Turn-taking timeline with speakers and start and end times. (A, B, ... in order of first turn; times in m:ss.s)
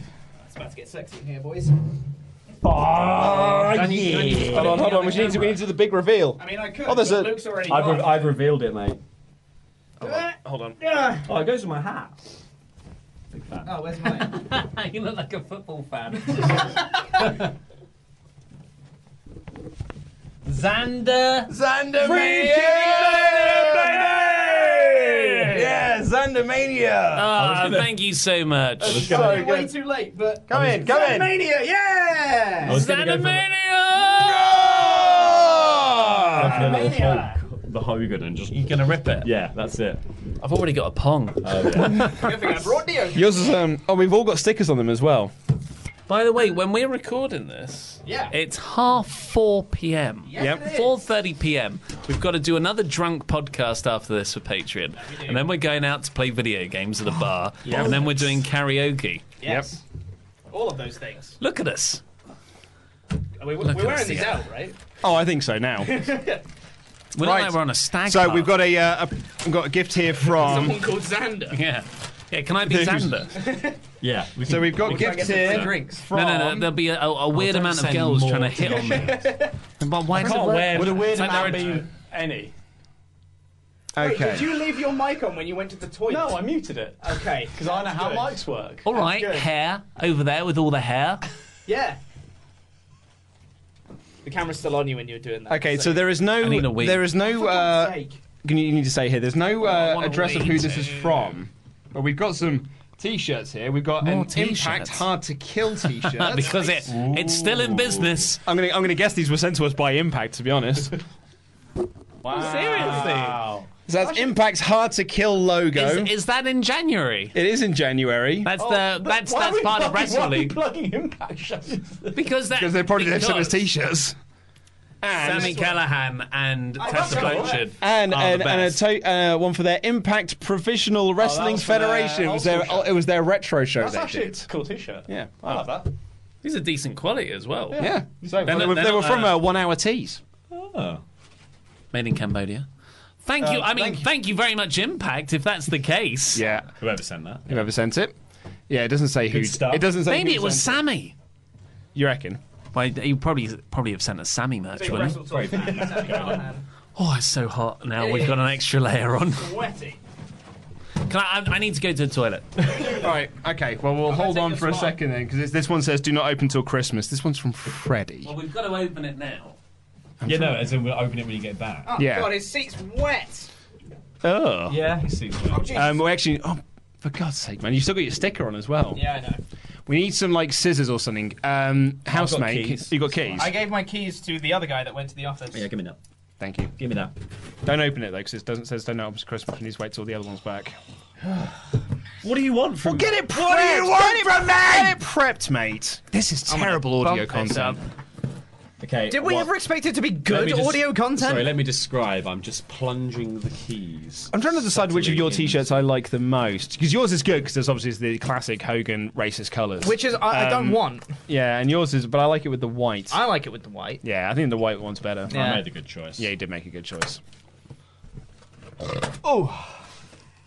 0:00.5-0:01.8 A
0:02.6-0:05.2 B
0:03.5-0:05.3 C
0:04.5-0:07.4 D
0:04.6-0:05.4 A
0:06.4-0:08.4 A
0:07.6-0:09.0 B
0:10.0-0:10.8 D
0:10.0-0:11.3 A
0:11.2-0:12.2 B
0:13.3-0:13.7 B
0:13.6-0:14.3 A
0:14.0-0:16.7 C
0:20.4-0:21.5 C
0:21.5-0:27.3 D
0:22.3-0:23.5 A
0:24.5-0:25.6 A
0:27.1-0:29.1 C
0:27.3-0:27.9 B
0:28.8-0:29.7 D
0:28.8-0:32.8 A
0:28.8-0:29.4 B
0:30.5-0:31.3 D
0:32.6-0:33.5 B
0:32.6-0:34.5 C
0:34.2-0:36.7 D
0:36.2-0:40.0 B
0:36.4-0:37.4 A
0:40.4-0:42.1 C
0:41.4-0:42.1 B
0:42.0-0:43.6 A
0:43.1-0:45.3 D
0:46.1-0:59.2 C
0:48.0-0:48.3 A
0:50.2-0:51.0 A
0:50.4-0:50.7 D
0:55.1-0:55.5 A
0:57.6-0:58.3 B
0:57.6-0:58.1 D
0:59.4-0:59.8 A
0:59.4-0:59.7 D
1:00.5-1:01.4 A
1:01.4-1:02.0 C
1:03.4-1:04.8 A
1:03.6-1:04.4 C
1:05.0-1:06.1 D
1:05.8-1:06.4 A
1:07.1-1:08.6 C
1:07.2-1:10.8 D
1:10.3-1:11.6 A
1:11.5-1:13.4 C
1:12.6-1:13.3 D
1:13.5-1:13.7 A
1:14.0-1:16.0 B
1:14.4-1:16.7 D
1:14.8-1:16.0 A
1:16.1-1:21.8 C
1:17.3-1:18.5 B
1:18.5-1:19.5 A
1:20.1-1:21.0 D
1:20.2-1:22.5 E
1:20.8-1:21.8 A
1:23.9-1:24.5 D
1:24.0-1:29.5 A
1:26.1-1:28.8 E
1:28.8-1:31.2 C
1:31.6-1:32.0 A
1:34.2-1:36.1 A
1:35.5-1:47.0 D
1:36.4-1:37.1 C
1:37.0-1:38.2 A
1:39.6-1:41.0 C
1:44.0-1:45.1 C
1:45.8-1:48.4 C
1:46.8-1:48.3 B
1:48.4-1:51.0 D
1:52.2-1:54.3 E
1:52.3-1:53.4 A
1:52.3-1:53.4 C
1:53.9-1:56.1 D
1:55.7-1:57.4 C
1:57.3-1:58.5 D
1:58.4-2:00.6 C
1:58.5-2:02.2 E
2:02.1-2:03.7 C
2:02.5-2:04.2 D
2:05.0-2:05.7 D
2:05.2-2:08.6 C
2:05.2-2:05.8 A
2:06.8-2:07.6 A
2:06.8-2:07.6 E
2:07.4-2:14.5 D
2:08.1-2:08.7 B
2:11.2-2:13.0 E
2:13.8-2:15.9 E
2:15.1-2:15.8 D
2:16.4-2:17.9 C
2:17.7-2:18.0 E
2:17.8-2:20.2 D
2:18.3-2:19.3 B
2:18.4-2:19.4 C
2:20.5-2:21.0 B
2:21.9-2:22.7 C
2:23.2-2:26.4 C
2:23.4-2:24.1 D
2:26.3-2:26.7 D
2:26.8-2:27.6 B
2:27.5-2:28.1 D
2:28.7-2:30.8 D
2:29.3-2:29.9 B
2:30.0-2:31.1 C
2:31.9-2:32.4 D
2:32.7-2:35.2 C
2:34.7-2:36.6 A
2:34.8-2:36.5 B
2:37.0-2:39.5 C
2:38.0-2:38.5 A
2:39.3-2:40.0 A
2:41.1-2:42.8 C
2:42.9-2:48.3 D
2:44.0-2:45.0 A
2:48.2-2:49.6 C
2:50.2-2:50.8 D
2:50.2-2:51.9 B
2:51.8-2:53.5 A
2:52.0-2:52.3 D
2:54.2-2:54.8 D
2:54.7-2:55.9 B
2:55.5-2:56.0 A
2:55.7-2:59.0 D
2:58.9-2:59.4 A
2:59.8-3:03.5 D
3:02.1-3:03.5 B
3:03.3-3:05.7 A
3:05.5-3:06.0 B
3:06.4-3:06.7 D
3:06.8-3:07.1 B
3:07.6-3:10.8 D
3:12.2-3:13.2 B
3:12.8-3:17.8 D
3:13.1-3:15.0 A
3:16.5-3:17.8 A
3:18.8-3:19.5 B
3:19.1-3:21.6 A
3:20.2-3:25.8 B
3:24.3-3:33.2 D
3:29.8-3:31.1 A
3:33.1-3:34.0 A
3:34.0-3:35.6 D
3:35.3-3:36.3 B
3:35.3-3:35.6 A
3:36.2-3:37.2 D
3:39.2-3:39.5 B